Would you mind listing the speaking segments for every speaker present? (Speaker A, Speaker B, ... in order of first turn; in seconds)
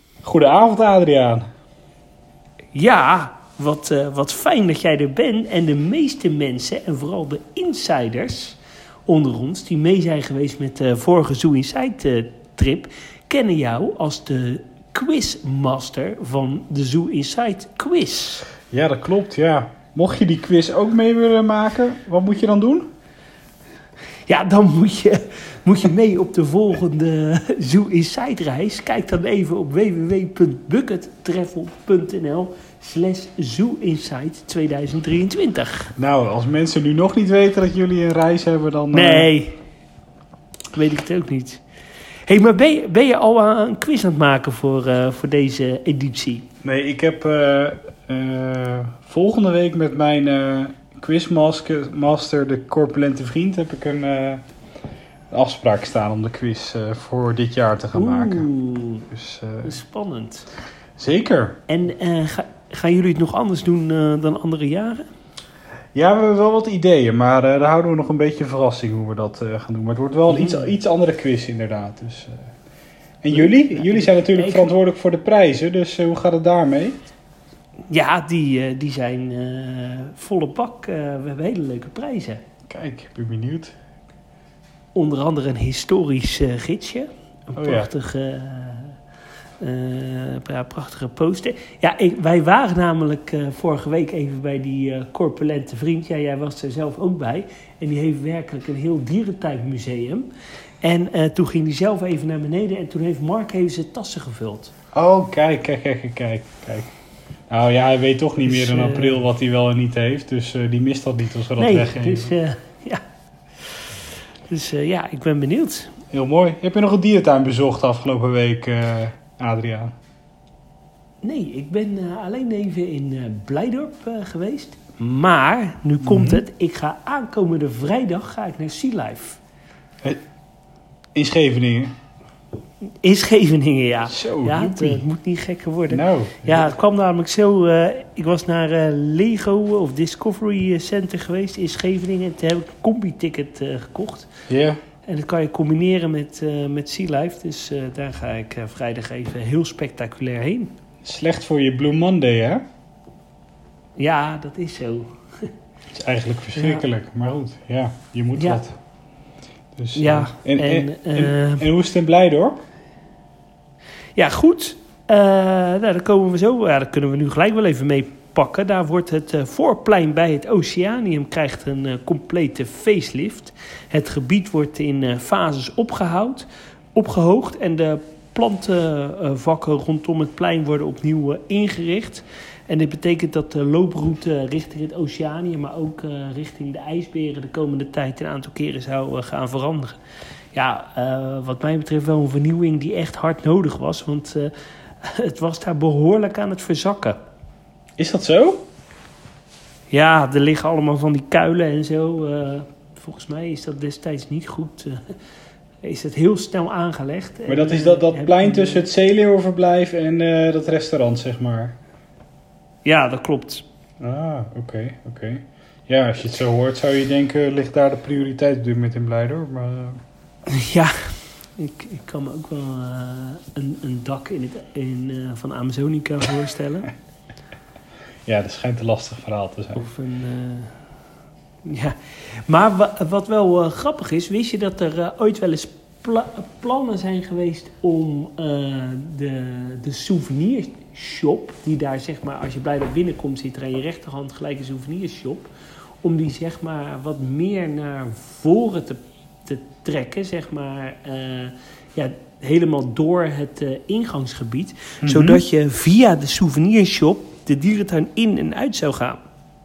Speaker A: 0.2-1.5, 18.7-22.9, 36.0-39.3, 46.6-54.4, 55.3-58.5, 59.1-59.7, 61.0-61.6, 65.9-72.5, 73.2-77.0, 82.7-83.8, 87.5-87.9, 104.9-106.9, 107.5-112.3, 116.1-119.9, 126.0-126.4, 131.1-131.9, 134.1-135.0, 135.9-136.7, 144.5-144.8, 151.0-152.6, 155.9-158.8, 159.7-162.6, 198.0-198.6, 207.5-211.8, 214.0-220.0, 228.2-229.8, 255.0-255.4
Speaker B: 2.7-18.5, 24.3-35.9, 38.9-39.6, 40.7-41.6, 42.2-46.5, 57.9-59.1, 59.6-60.5, 61.7-65.1, 70.3-70.7, 73.3-74.7, 77.9-82.4, 84.9-89.0, 89.6-100.3, 100.8-104.7, 108.4-109.2, 111.6-113.0, 113.6-114.0, 114.5-115.9, 121.2-129.4, 133.0-144.3, 145.1-150.7, 154.0-155.5, 156.5-156.8, 158.3-158.6, 159.9-161.7, 164.2-190.0, 190.5-197.2, 199.9-205.2, 205.8-208.8, 212.8-213.6, 220.5-226.9, 229.7-230.8, 231.6-245.5, 246.0-259.2